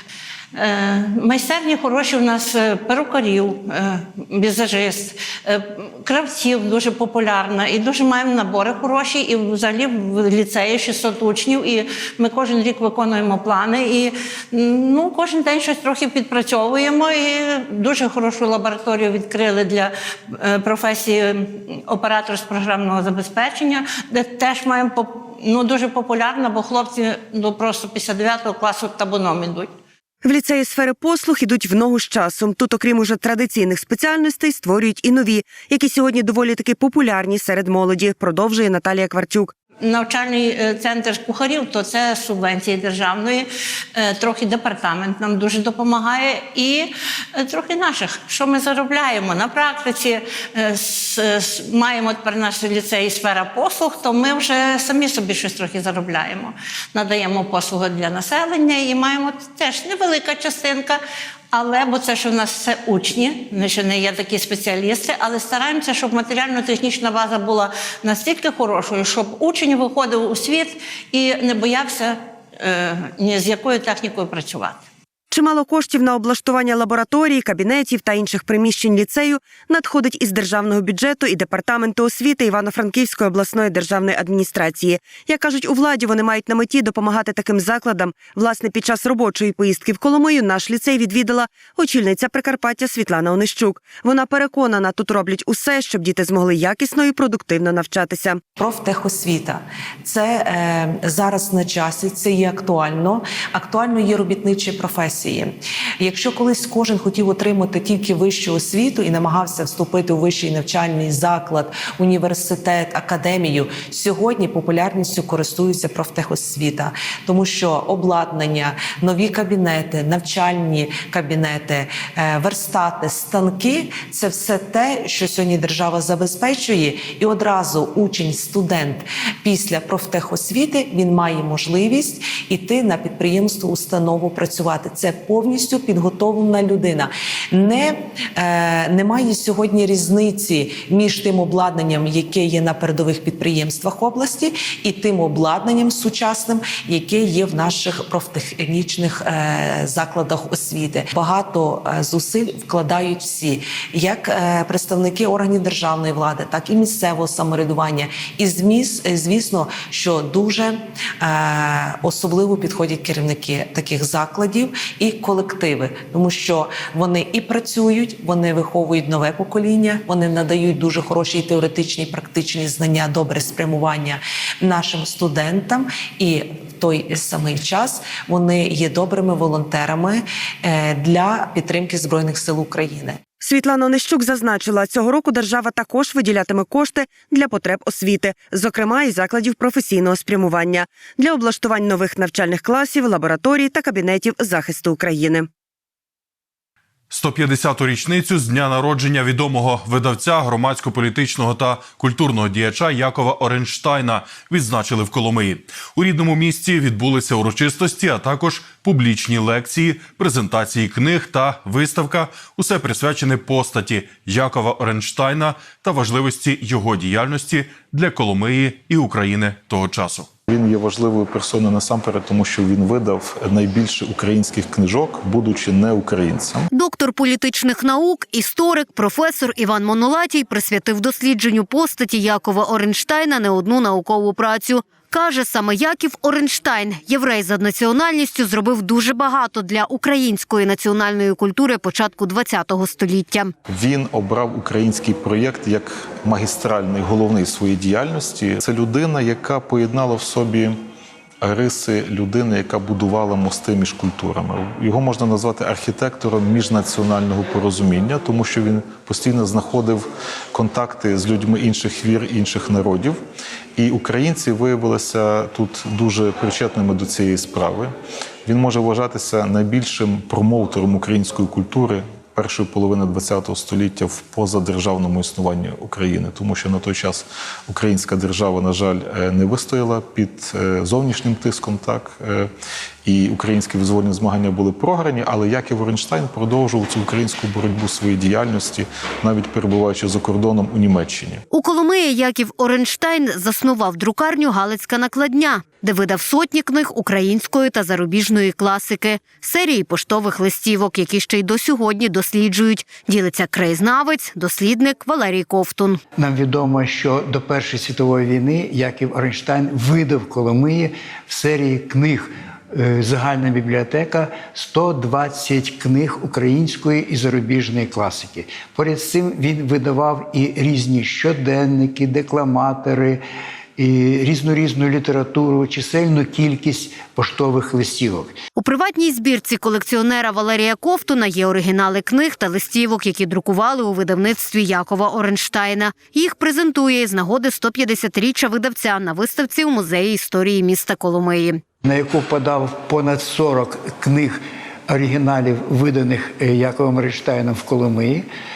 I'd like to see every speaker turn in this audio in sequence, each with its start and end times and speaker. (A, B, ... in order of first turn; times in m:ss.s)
0:00.6-0:29.7 A
0:30.2-0:39.5 B
0:39.8-1:01.0 A
1:01.5-1:14.8 A
1:15.3-1:38.4 B
1:38.6-3:03.2 C
3:03.4-3:15.5 B
3:17.1-3:40.3 D
3:40.5-3:46.7 E
3:46.7-4:03.5 F
4:03.7-4:10.8 E
4:11.4-4:23.2 E
4:23.8-4:27.9 E
4:28.4-4:42.5 E
4:43.0-4:51.4 E
4:51.5-5:06.0 F
5:06.2-5:23.2 G
5:23.8-5:28.4 G
5:28.6-5:41.6 F
5:41.8-5:48.3 G